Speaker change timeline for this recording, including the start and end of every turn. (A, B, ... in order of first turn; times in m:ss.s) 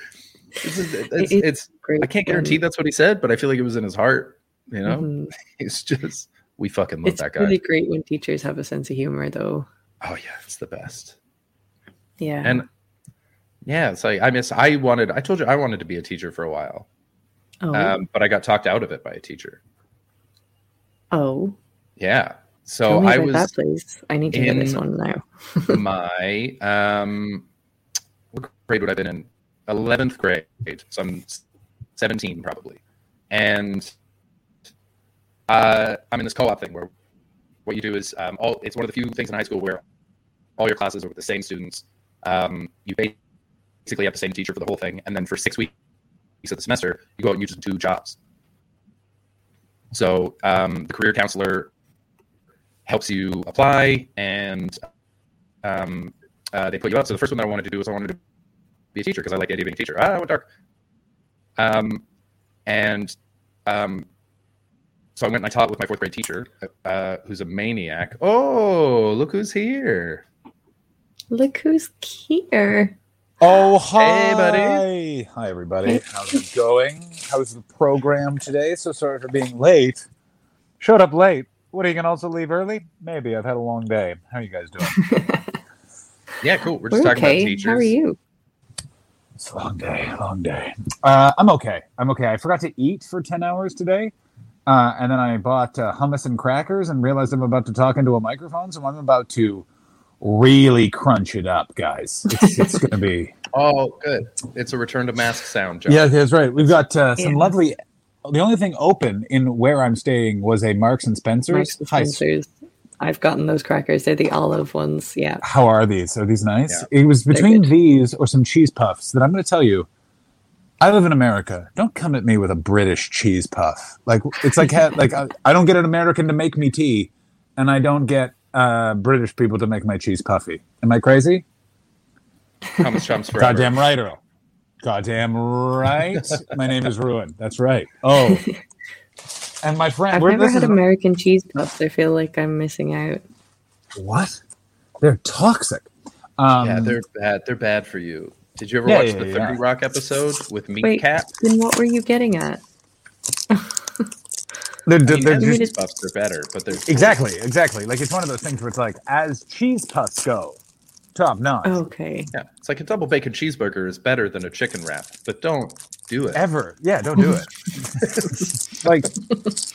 0:00.6-0:07.6 A
0:01.2-0:02.6 B
0:04.8-0:05.3 B
0:07.0-0:09.7 B
0:10.0-0:11.2 A
0:12.2-0:12.6 B
0:13.6-0:16.9 A
0:17.6-0:18.0 B
0:17.7-0:19.6 A
0:21.1-0:21.6 B
0:22.0-0:23.5 A
0:22.9-0:25.8 B
0:24.3-0:24.8 A
0:25.7-0:27.4 A
0:28.3-0:31.4 A
0:32.0-0:33.9 A
0:35.5-0:36.9 A
0:37.6-0:39.8 A
0:40.6-0:43.2 A
0:43.8-0:45.7 A
0:46.4-0:48.2 A
0:49.9-0:51.7 A
0:52.8-0:54.8 A
0:55.6-0:58.2 A
0:58.9-1:00.5 A
1:01.6-1:02.0 A
1:02.6-1:03.1 A
1:03.6-1:04.1 A
1:05.2-1:10.2 A
1:11.3-1:12.9 B
1:13.4-1:20.0 C
1:14.0-1:14.8 A
1:20.8-1:25.0 C
1:24.9-1:25.5 B
1:26.4-1:27.9 A
1:26.9-1:28.2 B
1:29.4-1:34.1 C
1:34.6-1:39.6 C
1:40.2-1:43.3 C
1:42.3-1:42.8 B
1:43.5-1:46.1 A
1:45.9-1:52.2 C
1:47.2-1:47.5 B
1:51.5-1:55.4 B
1:55.4-1:59.9 C
1:57.3-1:57.7 B
2:00.8-2:11.4 C
2:12.8-2:13.7 A
2:13.4-2:14.2 C
2:14.8-2:18.5 C
2:18.1-2:18.5 B
2:19.6-2:20.8 C
2:20.1-2:23.2 B
2:23.9-2:24.4 C
2:25.0-2:27.0 C
2:26.6-2:31.3 A
2:28.8-2:29.6 C
2:30.8-2:32.6 B
2:33.5-2:34.0 B
2:34.9-2:35.7 C
2:35.0-2:37.1 A
2:35.3-2:35.7 B
2:36.9-2:40.6 C
2:41.1-2:41.8 C
2:41.6-2:42.3 B
2:42.3-2:46.4 A
2:46.3-2:48.2 C
2:48.8-2:49.1 C